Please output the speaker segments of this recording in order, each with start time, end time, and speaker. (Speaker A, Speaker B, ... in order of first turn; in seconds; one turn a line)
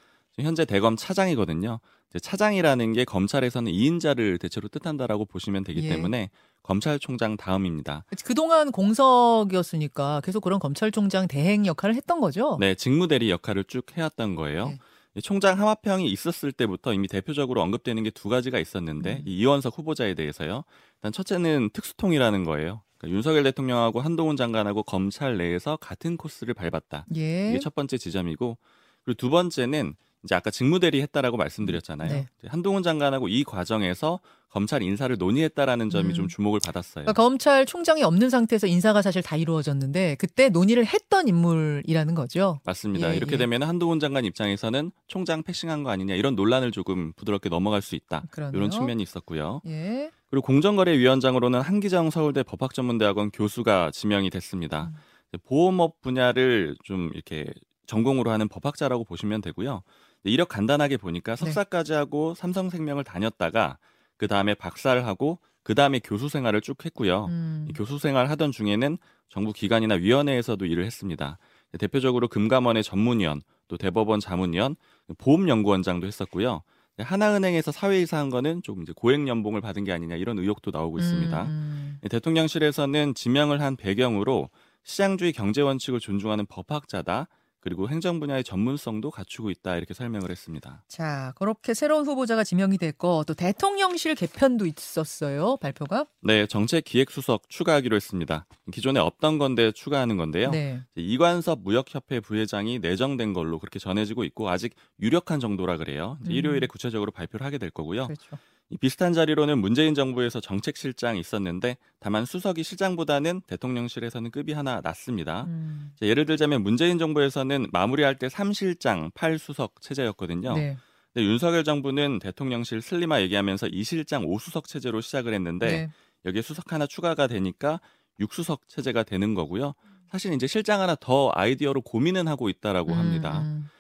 Speaker A: 0.4-8.1
Speaker B: 5.8-6.1
Speaker B: 8.1-12.6
Speaker A: 12.6-37.2
Speaker B: 19.0-19.3
Speaker B: 27.1-27.7
Speaker B: 31.6-32.3
Speaker B: 35.9-36.3
Speaker B: 37.1-43.5
Speaker A: 42.6-49.6
Speaker B: 48.2-49.0
Speaker B: 49.6-50.1
Speaker A: 50.3-90.8
Speaker B: 67.3-67.8
Speaker B: 81.0-82.0
Speaker B: 90.9-96.1
Speaker A: 96.2-108.2
Speaker B: 100.4-100.9
Speaker B: 106.2-106.7
Speaker B: 108.0-108.4
Speaker A: 108.7-133.5
Speaker B: 115.4-115.9
Speaker B: 120.5-120.8
Speaker B: 125.6-125.9
Speaker B: 132.9-133.7